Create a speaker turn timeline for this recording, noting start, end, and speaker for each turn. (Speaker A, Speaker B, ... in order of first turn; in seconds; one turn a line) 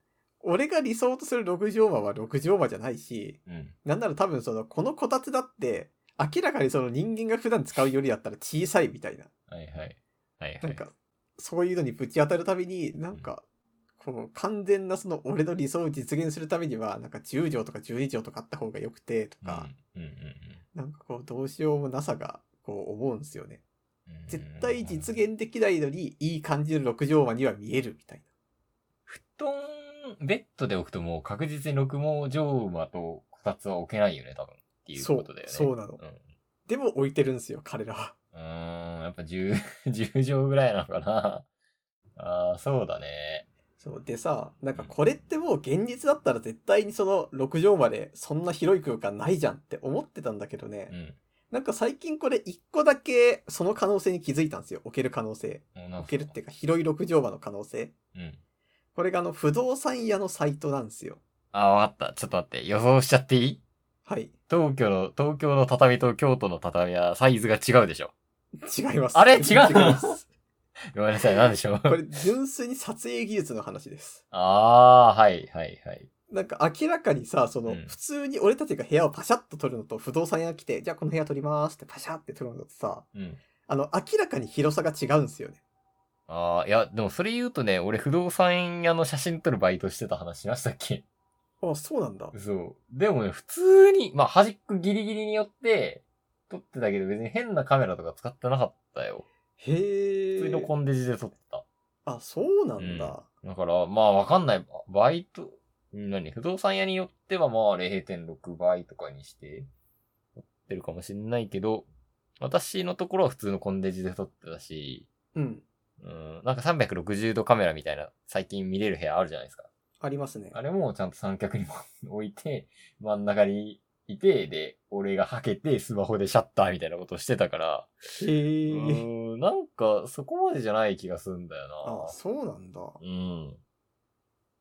Speaker A: 0.4-9.3
Speaker B: 3.5-3.7
Speaker B: 9.5-10.8
Speaker A: 10.6-13.4
Speaker A: 14.0-19.7
Speaker B: 19.4-20.6
Speaker A: 20.7-23.6
Speaker B: 24.1-25.1
Speaker A: 24.3-28.2
Speaker B: 29.1-36.2
Speaker A: 35.0-36.0
Speaker A: 36.7-38.1
Speaker B: 38.3-41.5
Speaker B: 42.1-43.5
Speaker A: 43.8-50.9
Speaker B: 50.9-51.2
Speaker A: 51.5-57.9
Speaker B: 55.7-56.3
Speaker B: 58.1-58.4
Speaker A: 59.0-61.2
Speaker B: 61.5-63.6
Speaker A: 64.0-64.3
Speaker B: 64.5-68.1
Speaker A: 68.6-70.3
Speaker B: 69.1-70.2
Speaker B: 70.9-72.0
Speaker A: 71.8-74.2
Speaker B: 74.3-76.1
Speaker A: 76.3-83.0
Speaker B: 77.7-77.9
Speaker B: 83.1-83.4
Speaker A: 83.7-85.6
Speaker B: 86.3-91.0
Speaker A: 91.6-92.3
Speaker B: 92.3-99.2
Speaker A: 99.6-100.7
Speaker B: 100.4-101.6
Speaker A: 102.0-103.2
Speaker B: 102.8-109.7
Speaker B: 110.3-111.9
Speaker B: 112.4-115.1
Speaker A: 115.3-115.6
Speaker B: 116.0-119.7
Speaker A: 120.0-120.6
Speaker B: 120.5-127.9
Speaker A: 128.2-129.1
Speaker B: 128.7-132.2
Speaker A: 131.8-133.0
Speaker B: 133.0-133.6